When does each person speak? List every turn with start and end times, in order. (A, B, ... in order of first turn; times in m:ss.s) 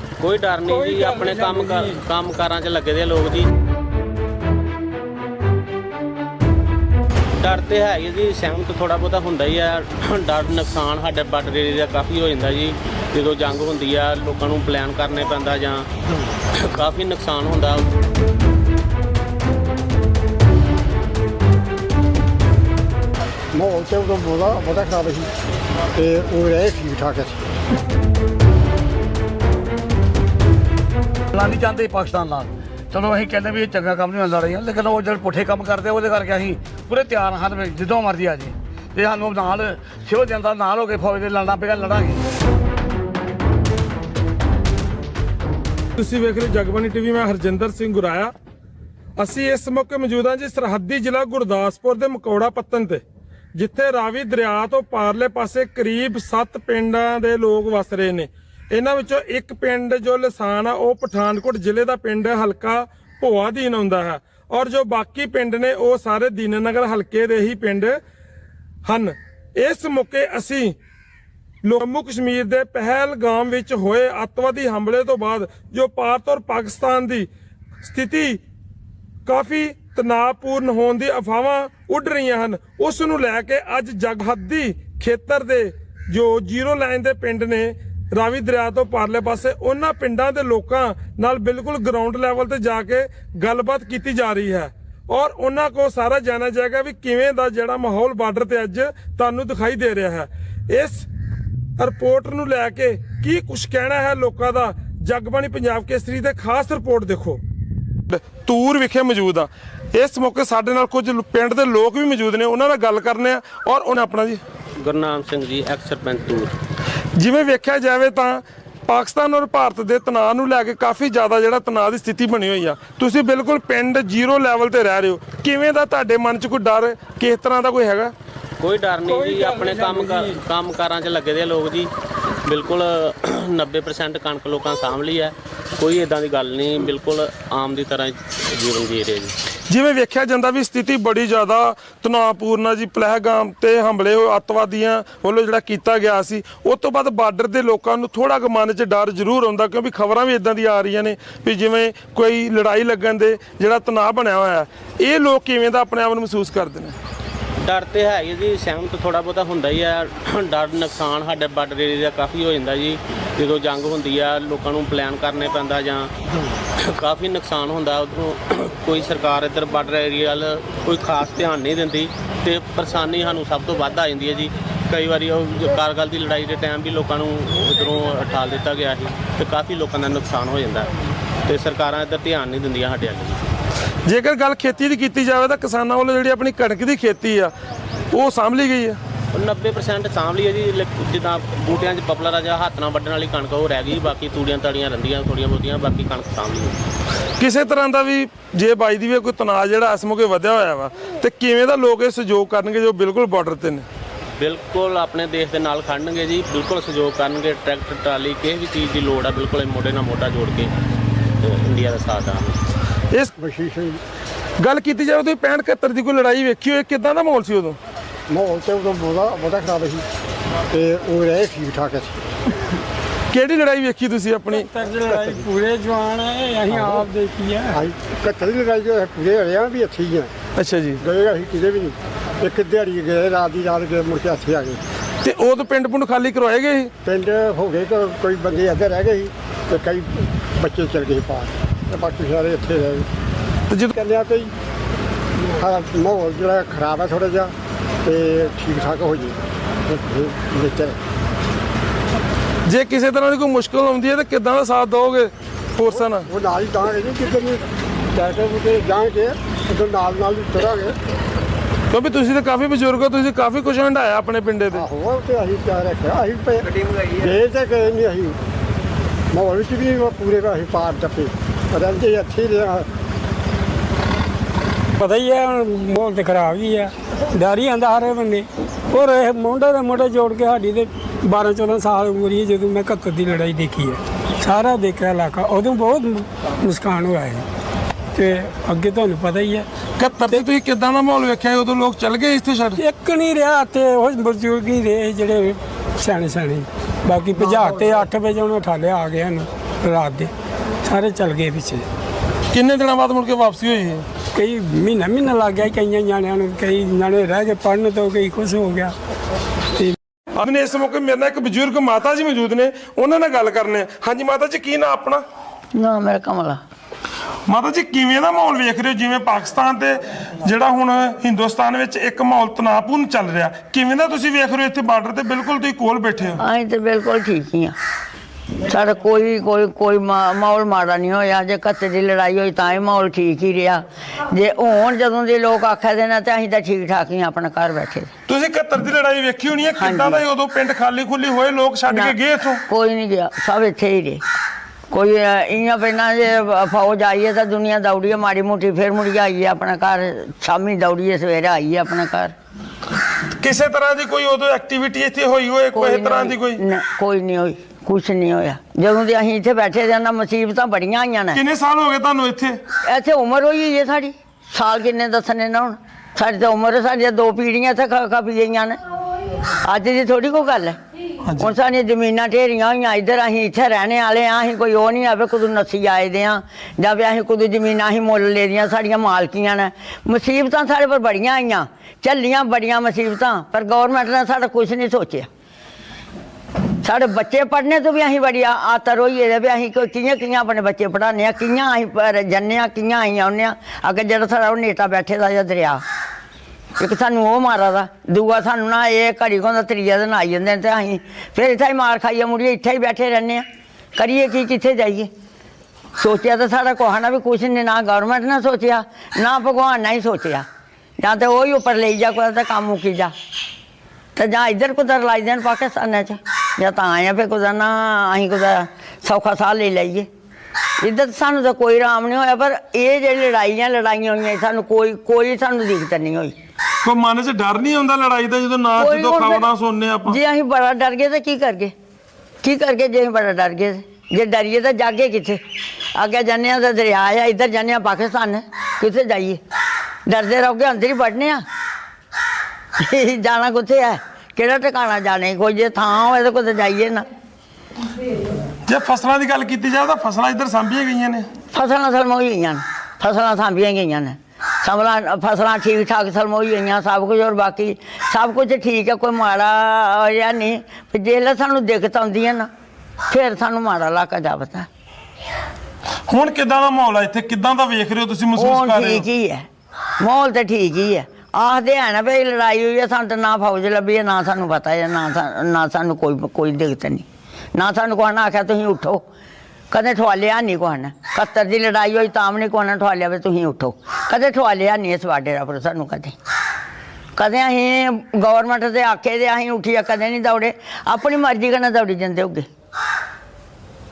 0:00.2-0:03.5 A
0:00.7-0:01.9 B
0:07.4-0:15.9 A
0:16.7-0:17.8 A
0:23.5-0:25.3 C
0:26.0-0:27.4 C
0:31.3-0:42.2 D
0:46.0-0:48.3 E
0:49.2-0:53.0 E
0:53.6-1:08.0 E
1:08.9-1:10.8 E
1:11.6-1:17.3 E
1:17.8-1:18.4 E
1:19.3-1:41.1 E
1:41.8-1:47.4 E
1:48.1-1:54.4 E
1:54.8-1:56.5 A
1:57.2-2:08.1 E
2:08.6-2:11.9 A
2:09.1-2:10.3 B
2:12.5-2:19.3 A
2:19.7-2:37.0 E
2:37.6-2:46.1 A
2:46.9-3:00.9 A
3:01.5-3:03.4 A
3:04.1-3:07.5 E
3:08.1-3:09.0 E
3:09.3-3:16.8 A
3:17.4-3:23.9 E
3:24.4-3:30.7 A
3:31.4-3:32.6 A
3:33.4-3:34.0 C
3:34.6-3:37.8 E
3:38.3-3:40.0 C
3:40.7-3:42.2 C
3:43.3-3:44.7 E
3:44.7-3:47.8 B
3:47.7-3:50.3 C
3:50.6-3:51.0 E
3:51.0-3:54.8 C
3:55.2-3:56.9 E
3:57.1-4:03.1 C
4:03.7-4:04.0 E
4:04.0-4:04.5 C
4:05.6-4:07.5 C
4:08.0-4:11.0 C
4:12.7-4:16.3 E
4:16.3-4:17.6 C
4:18.2-4:21.0 C
4:21.9-4:24.9 E
4:24.7-4:26.6 C
4:27.2-4:28.4 C
4:29.3-4:32.9 C
4:35.0-4:47.4 B
4:48.2-4:49.7 B
4:50.0-4:52.8 E
4:52.8-5:00.3 B
5:00.8-5:01.9 B
5:02.5-5:04.1 E
5:04.4-5:09.0 B
5:10.4-5:15.2 E
5:15.8-5:16.6 F
5:17.5-5:26.4 E
5:26.4-5:27.7 F
5:28.7-5:38.1 F
5:38.3-5:42.6 E
5:39.8-5:40.2 F
5:41.9-5:42.2 F
5:42.7-5:44.2 F
5:44.9-5:52.3 F
5:53.4-5:56.6 E
5:55.7-6:01.4 F
6:01.3-6:02.6 E
6:02.9-6:08.8 F
6:09.6-6:10.8 F
6:11.3-6:11.5 E
6:11.4-6:25.3 F
6:26.8-6:35.8 F
6:36.8-6:43.4 F
6:44.0-6:45.1 F
6:46.0-6:50.4 F
6:51.0-6:53.1 F
6:54.2-7:00.1 F
7:00.8-7:06.4 F
7:06.8-7:10.2 E
7:08.8-7:09.4 F
7:10.1-7:11.7 F
7:12.4-7:15.4 F
7:16.0-7:19.4 F
7:20.1-7:21.4 F
7:22.8-7:27.0 F
7:28.7-7:31.3 E
7:31.5-7:42.5 F
7:43.1-7:44.7 F
7:46.1-7:49.1 E
7:48.4-7:49.5 F
7:50.0-7:59.0 F
7:59.7-8:06.2 F
8:07.2-8:12.5 F